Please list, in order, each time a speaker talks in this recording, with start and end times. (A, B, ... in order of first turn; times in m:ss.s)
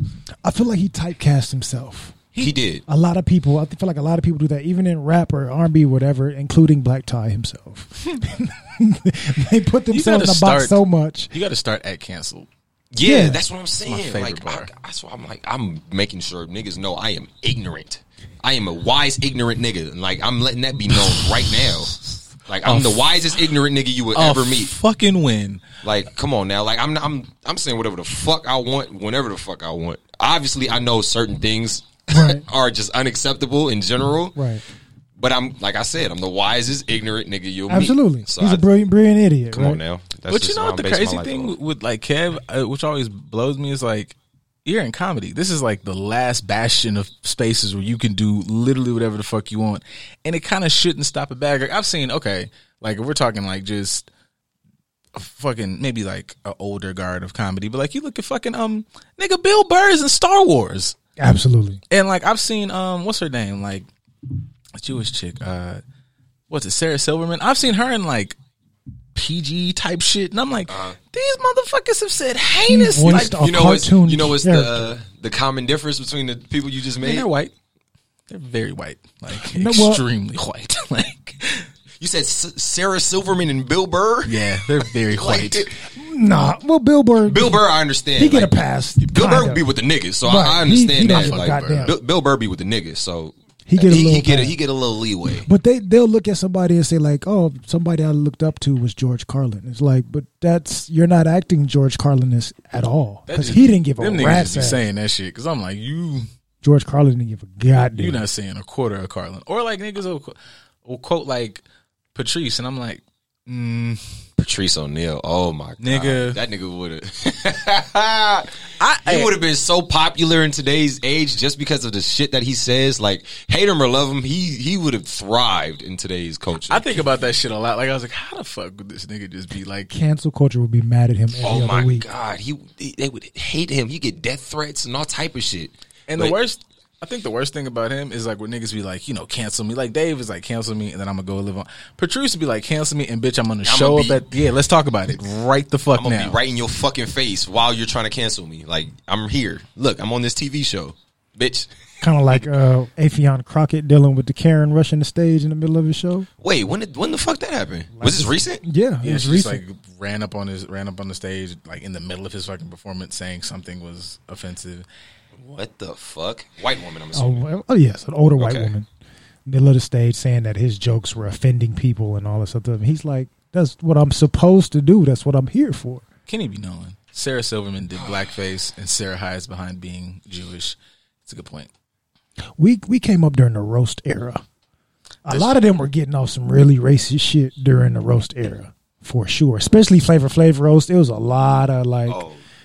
0:00.4-0:02.2 A
0:02.4-0:02.8 B
0:02.9-0:11.3 A
0:09.9-0:12.5 C
0:12.9-0:21.9 B
0:13.0-0:13.4 A
0:13.8-0:14.7 C
0:22.5-0:24.7 B
0:22.6-0:23.5 C
0:24.1-0:25.6 C
0:25.8-0:34.4 B
0:32.1-0:32.4 A
0:34.3-0:34.6 A
0:35.2-0:38.6 B
0:37.7-0:39.8 A
0:39.5-0:41.5 B
0:40.3-0:54.1 C
0:55.1-1:01.0 C
1:01.2-1:01.8 A
1:01.9-1:03.9 C
1:04.8-1:05.8 C
1:06.5-1:08.4 C
1:09.1-1:13.4 C
1:10.7-1:11.0 B
1:12.7-1:14.9 A
1:13.2-1:17.3 B
1:17.0-1:17.5 C
1:18.3-1:21.7 C
1:19.4-1:20.0 A
1:22.0-1:24.4 B
1:24.2-1:25.7 C
1:25.0-1:25.8 B
1:25.9-1:27.6 A
1:27.2-1:35.5 B
1:28.2-1:29.6 A
1:30.2-1:31.9 A
1:31.0-1:31.9 C
1:33.7-1:34.6 A
1:35.4-1:44.8 A
1:43.3-1:46.3 C
1:46.6-1:48.2 A
1:48.0-1:51.6 C
1:52.1-1:54.0 C
1:54.4-2:07.0 B
1:55.8-1:56.4 C
1:58.8-1:59.3 C
2:06.7-2:09.9 C
2:09.9-2:12.0 A
2:11.4-2:16.4 B
2:16.1-2:26.4 C
2:23.6-2:24.2 B
2:25.9-2:31.7 B
2:32.0-2:36.3 A
2:36.4-2:38.6 B
2:37.9-2:39.6 A
2:39.0-2:44.8 C
2:45.4-2:47.4 B
2:47.1-2:48.9 A
2:48.4-2:48.7 B
2:49.4-2:56.0 A
2:56.3-3:01.7 C
2:58.0-2:58.2 B
3:02.6-3:04.4 A
3:05.2-3:12.2 A
3:05.3-3:05.6 C
3:12.0-3:12.4 B